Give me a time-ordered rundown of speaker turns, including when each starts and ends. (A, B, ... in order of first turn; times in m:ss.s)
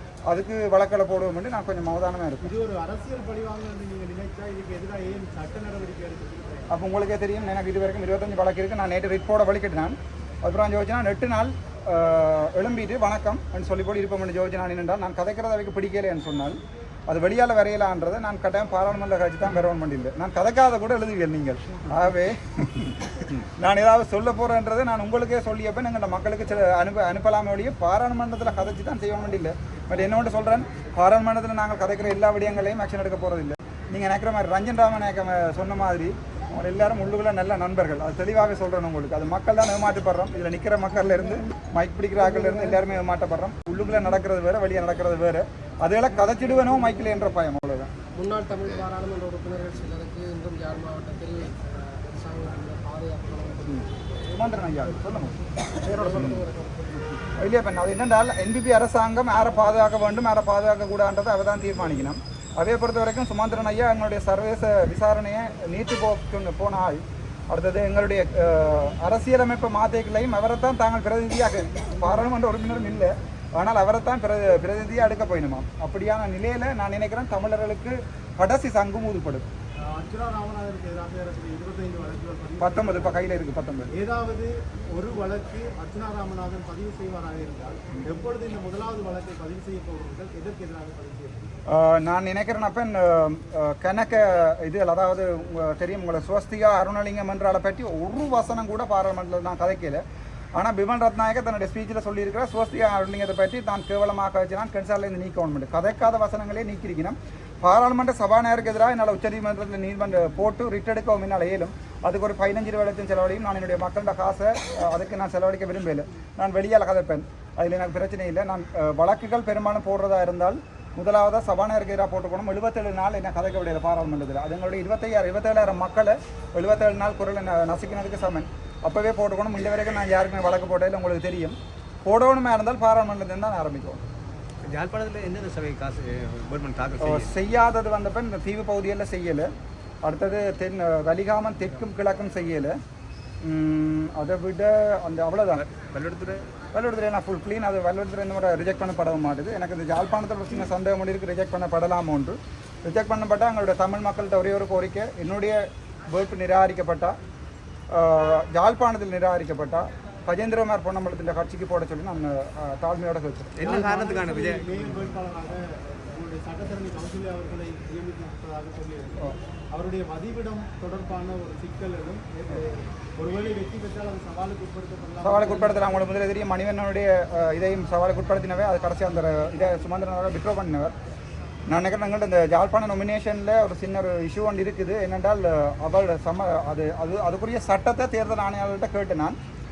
0:00.3-0:02.5 A
0:02.4-0:06.7 B
0:06.7-0:47.9 A
0:48.1-0:54.0 C
0:53.7-0:56.4 A
0:55.8-0:57.2 C
0:57.4-1:19.4 A
1:19.8-1:23.4 B
1:22.6-1:23.9 A
1:23.9-1:31.5 B
1:31.7-1:40.0 A
1:40.6-2:14.0 A
2:14.6-2:17.3 D
2:17.0-2:19.5 A
2:20.0-2:22.8 A
2:23.4-2:25.6 A
2:25.6-2:26.4 D
2:26.7-2:37.2 A
2:37.9-2:43.6 A
2:43.6-2:45.0 D
2:43.6-2:56.0 B
2:55.2-3:00.9 A
3:01.7-3:09.4 A